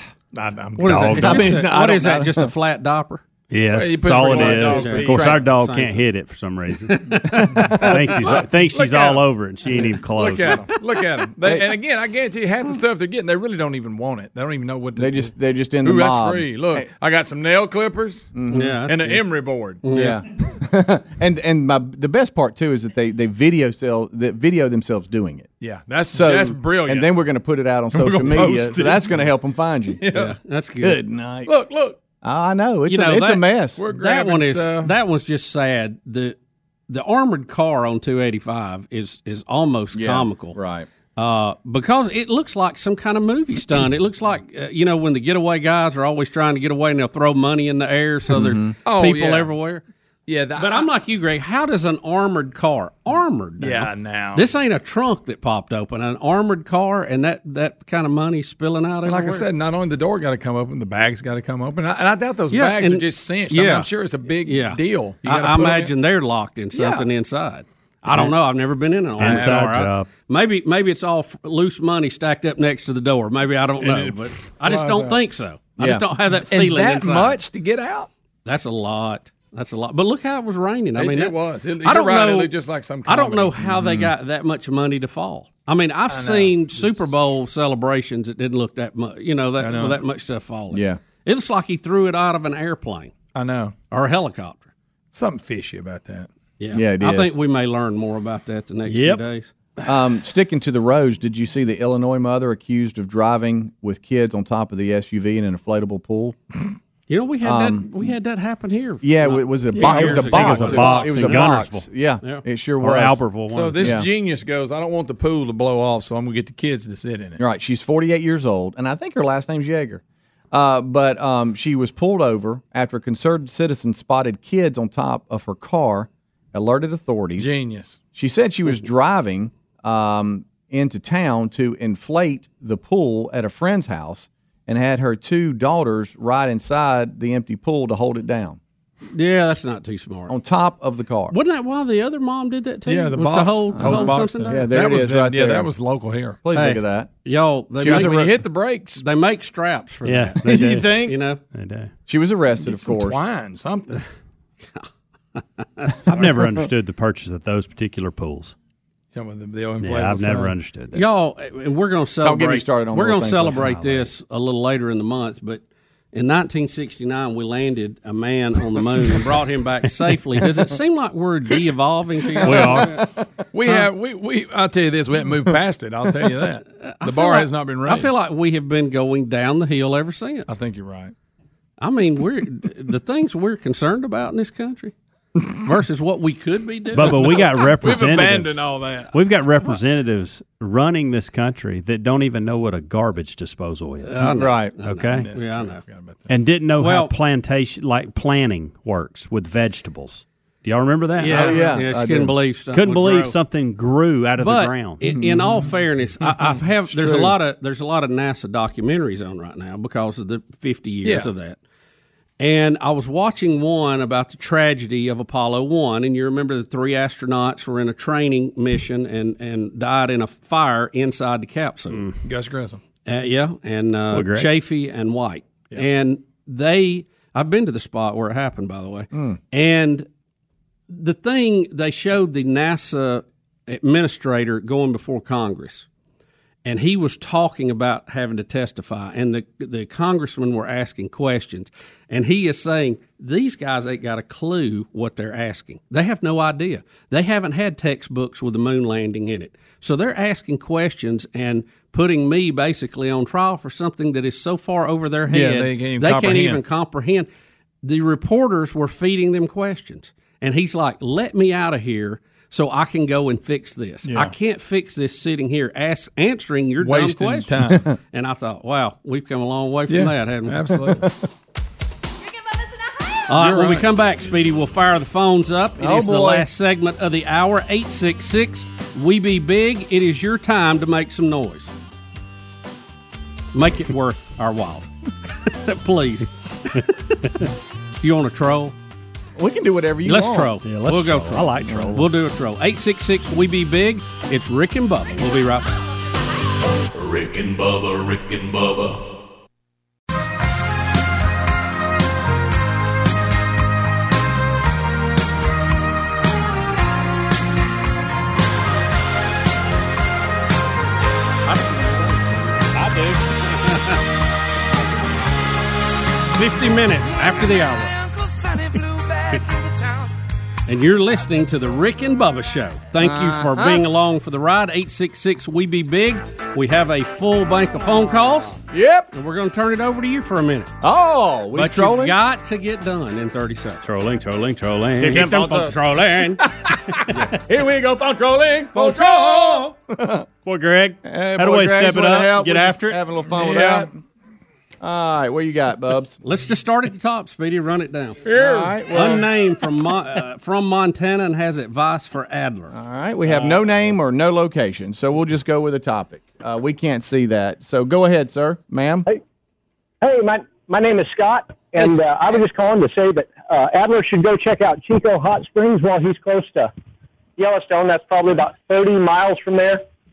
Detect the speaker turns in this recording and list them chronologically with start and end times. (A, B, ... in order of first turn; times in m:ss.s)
0:00.3-0:01.6 A
0:00.8-0:03.2 B
0:00.8-0:01.6 C
0:01.2-0:02.5 D
0:03.5-0:10.7 C
0:03.7-0:05.4 A
0:04.3-0:06.0 B
0:06.9-0:08.0 B
0:08.2-0:09.3 A
0:10.0-0:19.8 A
0:15.0-0:16.9 D
0:18.4-0:18.8 D
0:18.5-0:19.3 B
0:19.8-0:20.2 B
0:19.9-0:25.5 D
0:25.6-0:27.1 A
0:26.1-0:30.0 D
0:27.9-0:29.3 A
0:30.0-0:30.4 A
0:30.1-0:31.0 B
0:30.8-0:31.5 D
0:31.4-0:32.0 A
0:32.2-0:33.8 D
0:32.9-0:36.4 B
0:33.8-0:35.0 A
0:36.9-0:40.6 B
0:39.9-0:40.9 D
0:41.2-0:49.8 B
0:48.3-0:48.8 D
0:48.8-0:49.5 A
0:50.3-0:50.9 A
0:50.6-0:59.5 B
0:53.6-0:54.5 A
0:59.0-1:05.9 A
1:02.5-1:03.9 B
1:04.4-1:17.4 B
1:06.7-1:07.1 A
1:09.2-1:10.1 C
1:09.2-1:09.6 A
1:13.8-1:15.2 A
1:15.8-1:16.0 D
1:16.4-1:18.1 A
1:18.4-1:22.5 B
1:21.0-1:23.6 A
1:23.0-1:33.1 B
1:23.6-1:24.1 D
1:26.1-1:27.0 A
1:29.6-1:30.0 A
1:30.7-1:31.0 D
1:33.3-1:33.8 A
1:33.9-1:34.7 B
1:35.1-1:36.3 A
1:36.6-1:39.5 B
1:36.7-1:37.3 D
1:38.9-1:39.2 C
1:39.9-1:46.4 D
1:47.1-1:51.6 B
1:47.4-1:48.1 D
1:49.0-1:54.1 D
1:49.8-1:50.3 A
1:49.8-1:51.9 C
1:52.8-1:53.9 C
1:53.5-1:57.4 A
1:57.4-2:07.5 D
2:07.4-2:08.0 A
2:08.1-2:18.6 D
2:19.1-2:20.3 B
2:20.3-2:21.4 D
2:21.3-2:24.7 B
2:22.9-2:26.4 A
2:23.8-2:25.7 D
2:26.4-2:27.1 D
2:26.6-2:28.3 B
2:27.8-2:28.4 D
2:27.8-2:29.0 A
2:29.0-2:31.4 B
2:30.0-2:31.9 C
2:30.4-2:31.2 A
2:32.1-2:33.2 D
2:32.6-2:34.0 A
2:34.7-2:36.1 B
2:36.0-2:38.6 C
2:39.1-2:40.5 A
2:39.8-2:41.0 C
2:40.9-2:53.0 B
2:42.2-2:43.8 D
2:43.6-2:44.1 C
2:52.4-2:53.1 C
2:52.4-2:53.0 A
2:53.5-2:58.2 A
2:56.8-3:00.6 B
3:00.5-3:01.1 A
3:01.8-3:04.9 B
3:05.6-3:07.4 B
3:06.9-3:15.3 C
3:07.8-3:09.1 A
3:14.0-3:15.8 B
3:14.3-3:14.7 D
3:15.1-3:16.3 A
3:16.3-3:21.8 C
3:16.8-3:17.1 B
3:21.2-3:23.4 B
3:21.3-3:22.4 D
3:22.7-3:25.0 C
3:24.4-3:31.6 B
3:25.0-3:25.7 D
3:26.9-3:27.4 D
3:31.0-3:31.3 A
3:32.4-3:42.0 B
3:42.2-3:42.8 A
3:43.0-3:50.1 B
3:44.1-3:44.5 C
3:49.1-3:49.4 D
3:50.9-3:55.9 B
3:56.6-4:17.3 B
4:15.3-4:16.6 A
4:17.8-4:27.6 B
4:24.0-4:24.3 A
4:26.8-4:27.9 A
4:28.1-4:30.6 B
4:29.9-4:31.0 A
4:30.9-4:31.1 D
4:33.3-4:41.7 B
4:33.4-4:33.9 A
4:35.8-4:36.5 D
4:43.5-4:44.9 B
4:45.4-4:46.8 B
4:48.0-4:48.8 B
4:49.4-4:50.5 D
4:50.0-4:55.7 B
4:50.6-4:52.1 C
4:51.7-4:52.0 D
4:56.9-4:59.0 E
5:13.6-5:14.0 B
5:16.4-5:18.0 B
5:20.7-5:28.6 B
5:23.0-5:23.9 D
5:28.7-5:29.1 D
5:29.1-5:30.8 B
5:30.8-5:32.2 D
5:31.6-5:33.8 B
5:33.8-5:35.8 C
5:35.0-5:36.4 B
5:37.1-5:40.3 D
5:38.7-5:39.7 A
5:40.4-5:43.0 C
5:41.0-5:43.9 D
5:43.4-5:43.9 A
5:44.8-5:46.2 D
5:46.2-5:48.2 B
5:48.2-5:49.1 A
5:48.3-5:49.3 D
5:48.9-5:52.7 B
5:52.7-5:59.1 D
5:53.3-5:53.9 B
6:00.0-6:06.7 F
6:07.4-6:09.8 F